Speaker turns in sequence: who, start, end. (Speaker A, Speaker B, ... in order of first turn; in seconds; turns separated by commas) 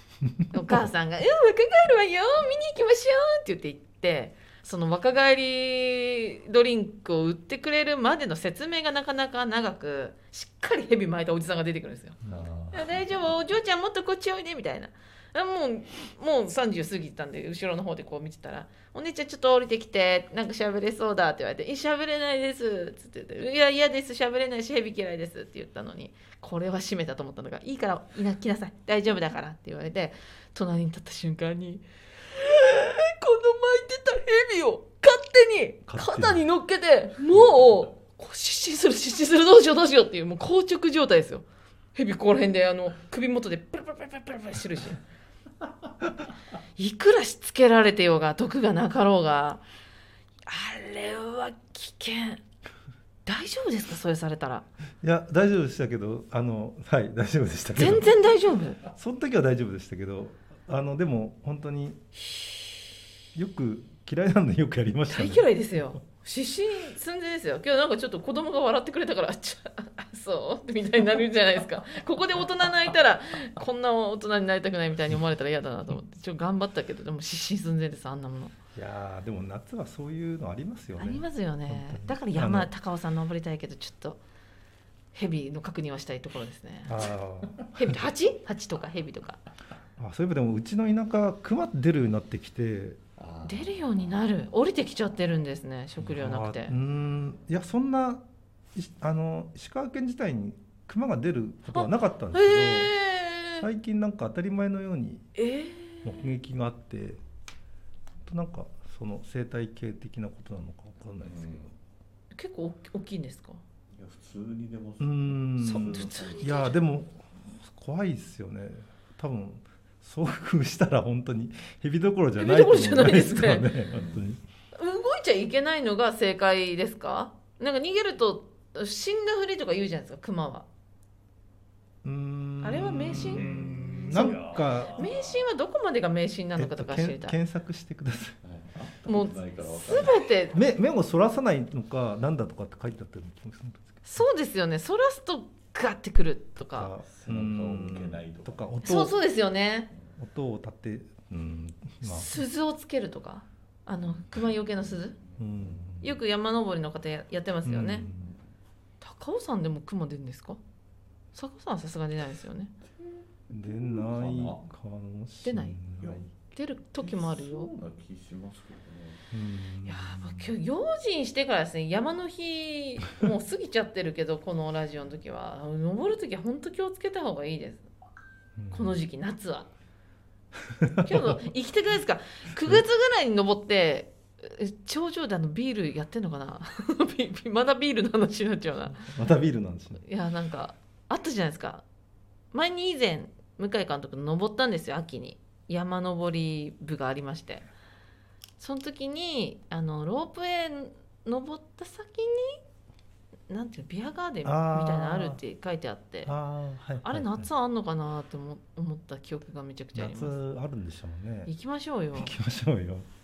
Speaker A: 0.5-12.2, Speaker B: 12.2-13.0, Speaker A: 12.7-45.0, Speaker C: 35.9-36.4, Speaker A: 46.8-49.6, Speaker A: 50.5-52.4, Speaker A: 53.2-54.7, Speaker C: 55.0-58.1, Speaker A: 57.8-58.8, Speaker C: 58.8-62.0, Speaker C: 63.3-65.5, Speaker A: 65.1-78.5, Speaker C: 78.7-82.7, Speaker A: 81.0-84.2, Speaker A: 85.1-87.1, Speaker C: 86.9-88.1, Speaker A: 87.7-89.4, Speaker C: 90.0-93.0, Speaker B: 93.2-94.1, Speaker A: 93.4-96.7, Speaker C: 96.0-98.2, Speaker C: 98.7-103.0, Speaker A: 101.7-103.7, Speaker C: 103.6-105.3, Speaker A: 105.3-106.2, Speaker C: 106.0-107.2, Speaker C: 108.2-111.7, Speaker B: 111.2-111.7, Speaker A: 112.3-113.6, Speaker B: 113.9-116.3, Speaker C: 115.0-124.4, Speaker A: 115.6-116.8, Speaker A: 122.4-123.7, Speaker B: 123.9-124.3, Speaker A: 124.8-130.7, Speaker C: 132.0-135.1, Speaker A: 132.6-134.4, Speaker B: 133.2-135.4, Speaker A: 134.9-137.4, Speaker C: 136.6-138.4, Speaker B: 138.4-140.3, Speaker A: 139.1-140.6, Speaker C: 140.5-144.2, Speaker A: 144.1-146.9, Speaker C: 146.6-149.1, Speaker B: 147.1-148.6, Speaker A: 148.8-149.9, Speaker C: 150.2-152.4, Speaker A: 152.0-155.2, Speaker C: 155.4-156.1, Speaker A: 156.0-158.1, Speaker C: 157.6-158.3, Speaker A: 159.0-160.6, Speaker A: 161.3-162.7, Speaker C: 163.5-166.2, Speaker B: 163.5-164.7, Speaker A: 165.4-165.8, Speaker B: 166.0-166.3, Speaker A: 166.3-167.7, Speaker B: 167.0-169.2, Speaker C: 169.3-170.5, Speaker A: 169.8-177.9, Speaker C: 178.6-179.0, Speaker A: 178.7-179.7, Speaker C: 180.7-181.2, Speaker A: 181.0-189.1, Speaker C: 189.0-190.0, Speaker A: 190.0-191.8, Speaker A: 192.5-197.7, Speaker A: 198.6-202.6, Speaker A: 203.5-206.3, Speaker C: 204.4-205.4, Speaker C: 206.2-207.5, Speaker A: 207.0-210.4, Speaker C: 209.9-211.5, Speaker A: 211.5-212.3, Speaker C: 212.1-213.1